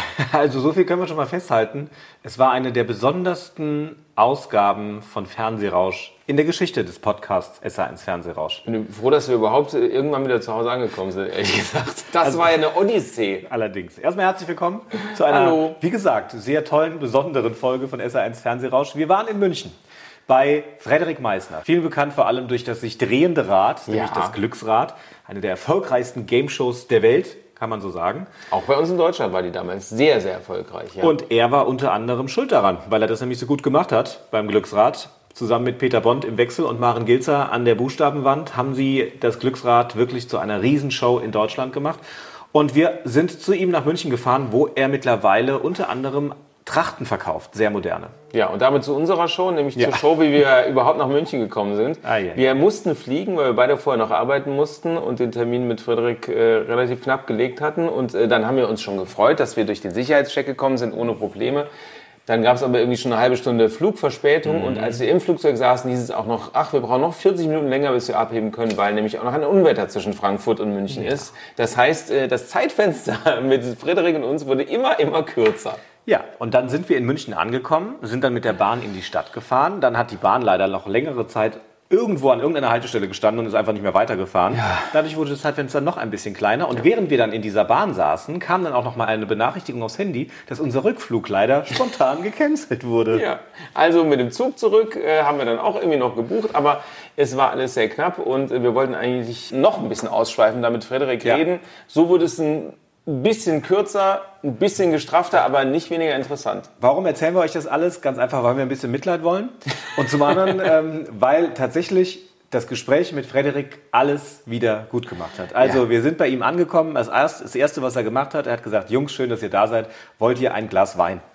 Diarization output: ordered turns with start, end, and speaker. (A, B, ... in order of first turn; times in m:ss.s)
0:00.2-0:08.6 A
0:08.7-0:13.5 B
0:12.2-0:12.6 A
0:13.5-0:19.8 A
0:15.1-0:15.8 B
0:20.3-0:28.3 A
0:23.9-0:24.4 B
0:28.5-0:31.2 B
0:31.0-0:42.0 A
0:42.5-0:48.1 A
0:48.3-1:01.7 B
0:49.8-0:50.0 A
0:52.0-0:52.4 A
1:02.3-1:15.8 B
1:04.5-1:05.0 A
1:16.1-1:33.2 A
1:24.6-1:24.9 B
1:33.1-1:46.7 B
1:46.8-2:01.2 A